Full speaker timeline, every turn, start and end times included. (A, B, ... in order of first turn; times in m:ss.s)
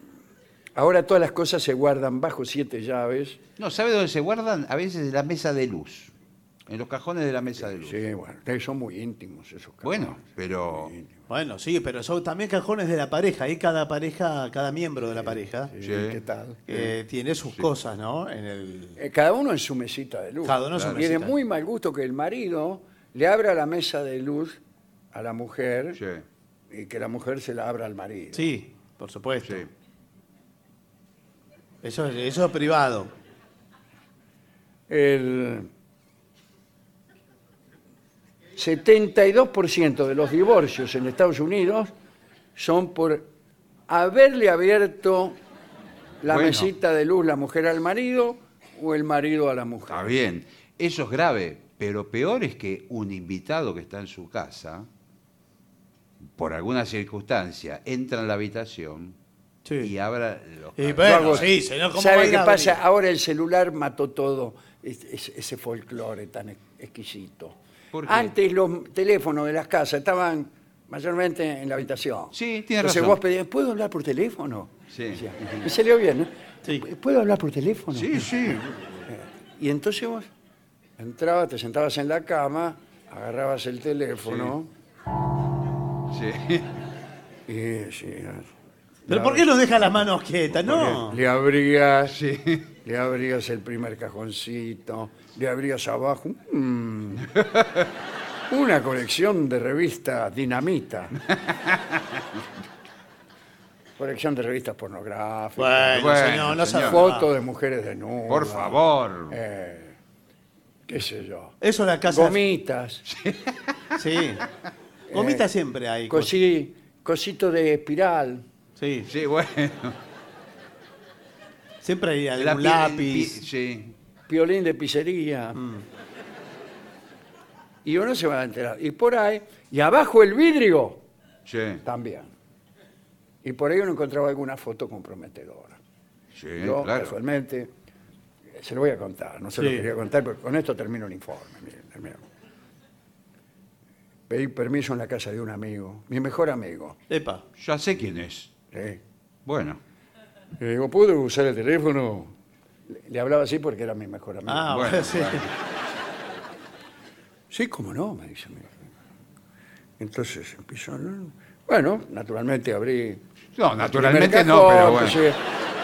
0:00.8-0:03.4 A
0:03.6-0:06.1 B
0:06.7-0:08.0 B
0:07.8-0:10.2 A
0:09.8-0:10.9 B
0:10.7-0:11.1 A
0:11.3-0:15.7 C
0:15.7-0:16.9 A
0:15.8-0:16.2 B
0:16.7-0:19.0 C
0:19.0-0:24.6 A
0:20.4-0:21.3 C
0:20.7-0:21.0 B
0:25.1-0:26.0 A
0:26.0-0:26.2 B
0:26.7-0:28.5 A
0:28.3-0:29.6 C
0:29.4-0:29.7 B
0:31.8-0:33.1 C
0:34.9-0:35.7 A
0:38.6-0:41.9 A
0:42.6-0:43.3 A
0:43.9-0:45.4 A
0:46.2-0:50.1 A
0:46.2-0:46.7 B
0:49.9-0:54.9 B
0:56.3-0:59.2 B
0:59.6-0:59.9 C
0:59.8-1:01.5 B
1:00.8-1:02.8 C
1:01.0-1:18.3 A
1:07.9-1:08.3 B
1:12.3-1:13.2 B
1:14.9-1:15.2 B
1:17.9-1:18.8 B
1:19.1-1:20.3 A
1:21.0-1:24.7 A
1:26.1-1:26.8 B
1:27.5-1:28.5 A
1:29.1-1:29.4 A
1:29.1-1:31.2 C
1:30.6-1:32.2 A
1:32.1-1:32.7 B
1:32.8-1:37.3 A
1:37.4-1:37.8 B
1:38.5-1:41.2 A
1:41.3-1:42.2 B
1:44.0-1:46.3 A
1:45.6-1:47.3 C
1:45.9-1:47.0 B
1:46.8-1:50.0 A
1:48.3-1:49.4 B
1:50.9-1:51.5 A
1:51.6-1:52.4 C
1:52.1-1:53.0 A
1:53.0-1:54.0 B
1:54.0-1:54.4 C
1:55.1-1:55.4 A
1:55.1-1:56.3 C
1:56.1-1:58.4 A
1:58.8-1:59.1 C
1:59.0-2:00.0 B
2:01.8-2:03.4 C
2:02.4-2:03.9 B
2:04.3-2:05.6 A
2:05.6-2:05.8 C
2:07.8-2:11.0 A
2:11.4-2:11.8 B
2:11.8-2:12.3 A
2:13.4-2:15.8 A
2:16.3-2:17.2 B
2:16.6-2:17.7 A
2:18.6-2:22.2 A
2:19.6-2:19.8 C
2:24.3-2:27.0 A
2:27.1-2:27.4 C
2:27.6-2:28.5 B
2:28.7-2:29.0 A
2:29.4-2:29.8 B
2:30.6-2:32.3 A
2:32.9-2:34.9 A
2:34.5-2:35.4 C
2:34.7-2:35.5 B
2:37.5-2:38.8 A
2:40.0-2:43.2 A
2:43.5-2:45.2 B
2:43.8-2:45.4 A